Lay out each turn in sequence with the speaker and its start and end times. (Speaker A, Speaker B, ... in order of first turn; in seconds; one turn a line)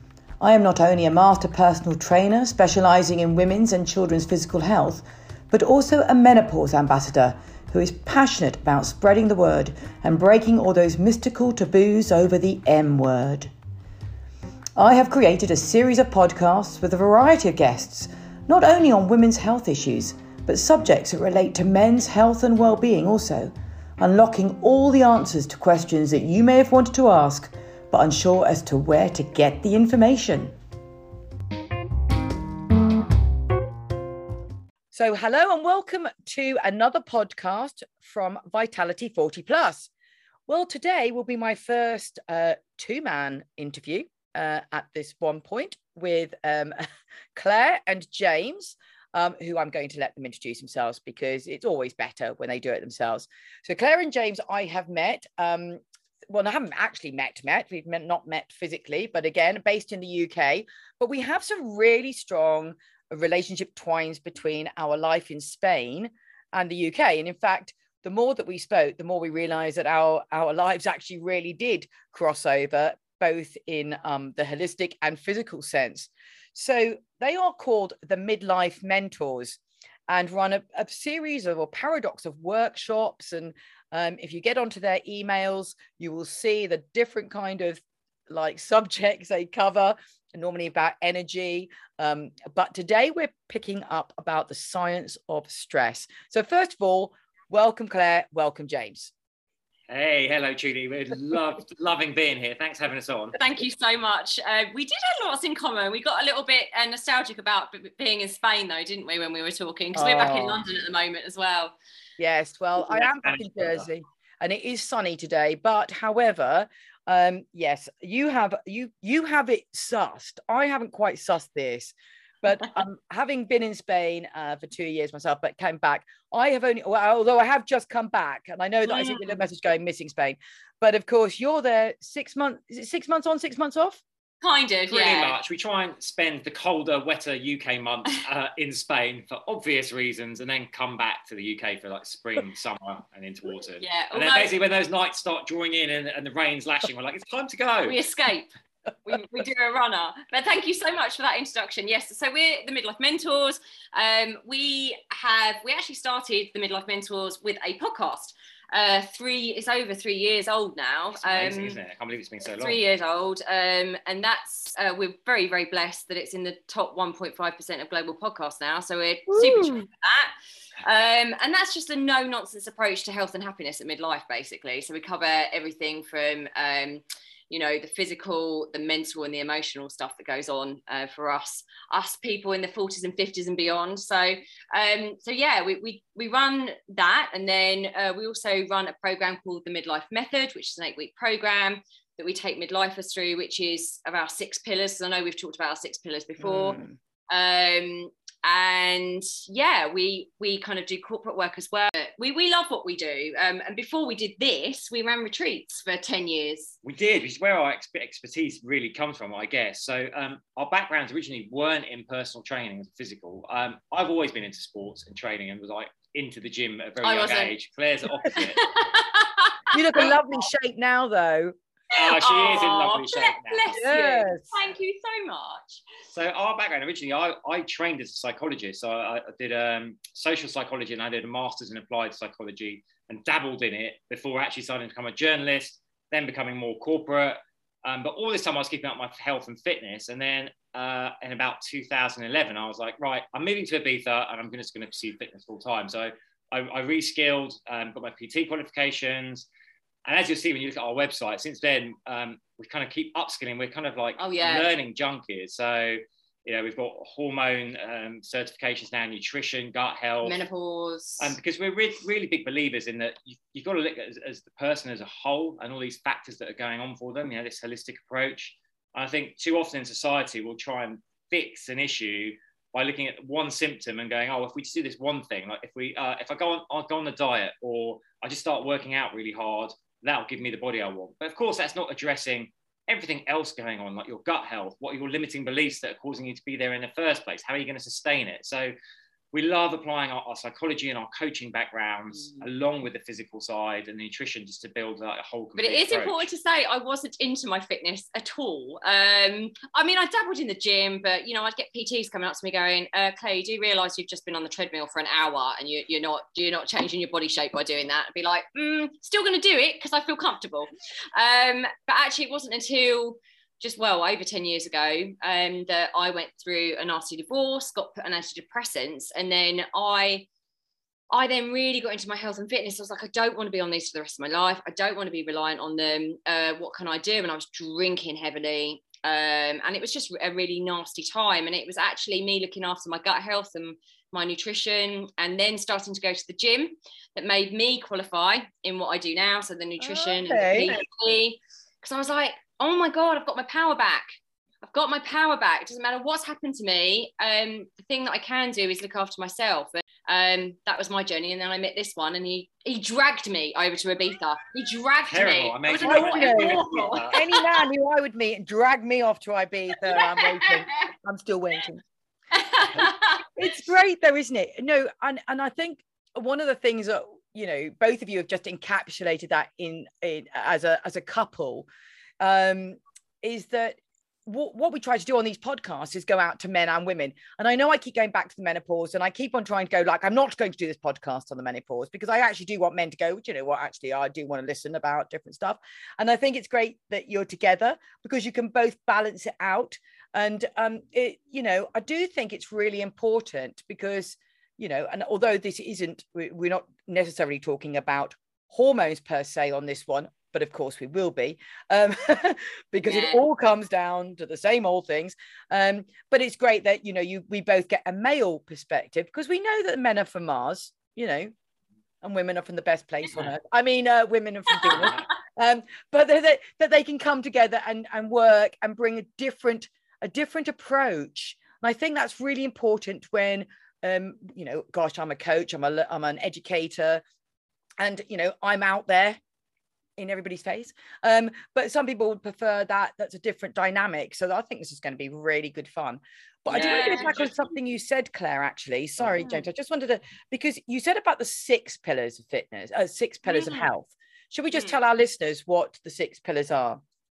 Speaker A: 0.4-13.5
Speaker A: 14.8-30.6
Speaker A: 34.9-39.9
Speaker A: 40.5-46.8
Speaker A: 47.4-99.1
Speaker B: 99.9-103.4
Speaker C: 103.3-111.8
Speaker A: 110.0-110.6
Speaker A: 112.2-134.0
Speaker B: 113.0-113.8
Speaker C: 128.8-129.4
Speaker C: 134.4-135.4
Speaker B: 134.9-148.0
Speaker C: 143.8-144.5
Speaker C: 147.8-148.5
Speaker C: 149.1-161.8
Speaker B: 161.2-162.8
Speaker C: 162.6-170.3
Speaker A: 169.3-169.9
Speaker C: 170.8-206.8
Speaker A: 196.4-196.9
Speaker B: 206.8-218.6
Speaker C: 217.0-217.5
Speaker C: 218.4-220.1
Speaker A: 219.7-221.6
Speaker C: 221.9-225.8
Speaker B: 221.9-223.8
Speaker A: 223.8-224.5
Speaker B: 226.1-249.5
Speaker B: 250.1-260.4
Speaker C: 254.2-254.7
Speaker C: 260.2-261.4
Speaker B: 261.2-288.7
Speaker B: 289.3-296.2
Speaker C: 295.6-320.3
Speaker C: 321.1-344.1
Speaker A: 339.8-340.8
Speaker C: 344.6-357.4
Speaker B: 355.1-357.2
Speaker A: 355.8-361.8
Speaker C: 359.9-360.8
Speaker C: 362.3-363.2
Speaker A: 362.8-371.7
Speaker A: 372.2-411.3
Speaker C: 402.9-403.2
Speaker A: 412.0-427.0
Speaker C: 414.6-415.0
Speaker A: 427.8-429.2
Speaker A: 430.0-446.8
Speaker C: 436.5-437.1
Speaker B: 436.5-437.4
Speaker C: 443.2-443.7
Speaker C: 444.5-444.8